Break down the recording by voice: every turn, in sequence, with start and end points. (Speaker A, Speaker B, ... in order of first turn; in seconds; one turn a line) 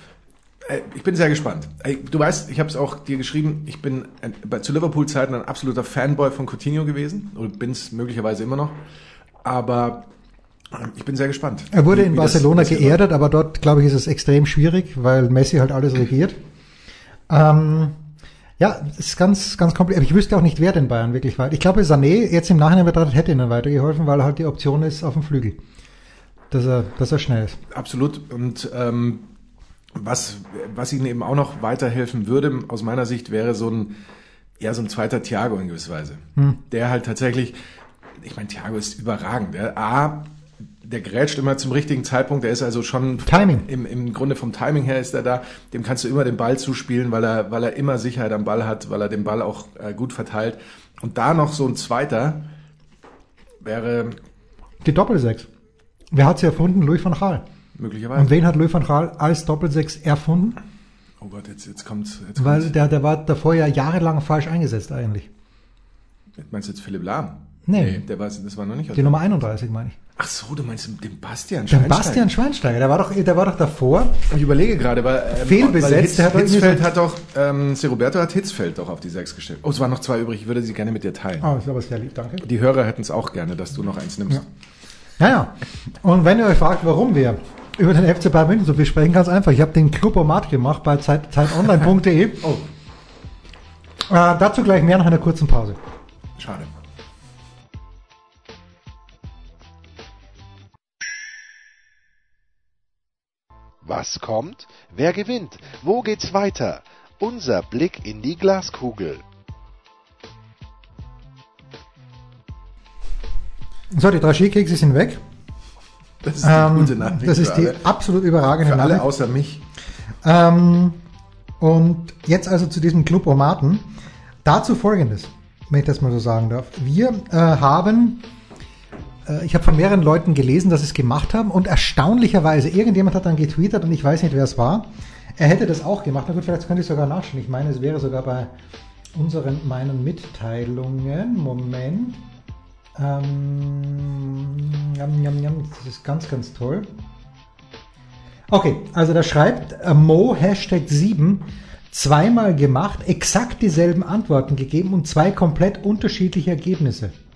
Speaker A: 0.6-8.8
Speaker A: 9.4-10.1
Speaker A: 10.7-13.0
Speaker B: 11.7-16.4
Speaker B: 17.3-18.0
Speaker B: 18.6-25.6
Speaker B: 26.5-27.6
Speaker A: 27.7-29.3
Speaker A: 29.9-34.0
Speaker A: 34.6-37.6
Speaker A: 38.2-40.3
Speaker A: 40.8-52.5
Speaker B: 43.3-43.7
Speaker A: 53.6-54.2
Speaker B: 54.8-55.5
Speaker B: 56.1-57.4
Speaker A: 57.8-58.4
Speaker B: 58.1-60.6
Speaker A: 61.2-62.7
Speaker B: 62.4-65.3
Speaker A: 66.4-69.2
Speaker B: 67.7-68.0
Speaker B: 68.9-70.0
Speaker A: 70.2-72.3
Speaker B: 71.7-74.2
Speaker A: 74.3-81.5
Speaker B: 75.4-76.8
Speaker B: 81.4-82.5
Speaker A: 82.4-84.4
Speaker B: 85.2-92.5
Speaker B: 94.1-95.8
Speaker A: 96.4-96.7
Speaker C: 103.8-109.2
Speaker B: 113.9-115.2
Speaker A: 116.2-117.8
Speaker B: 116.4-119.1
Speaker A: 118.6-119.6
Speaker B: 120.2-121.0
Speaker B: 121.6-123.9
Speaker B: 124.5-128.2
Speaker B: 129.3-138.5
Speaker B: 139.1-142.2
Speaker B: 143.0-146.9
Speaker B: 148.5-157.1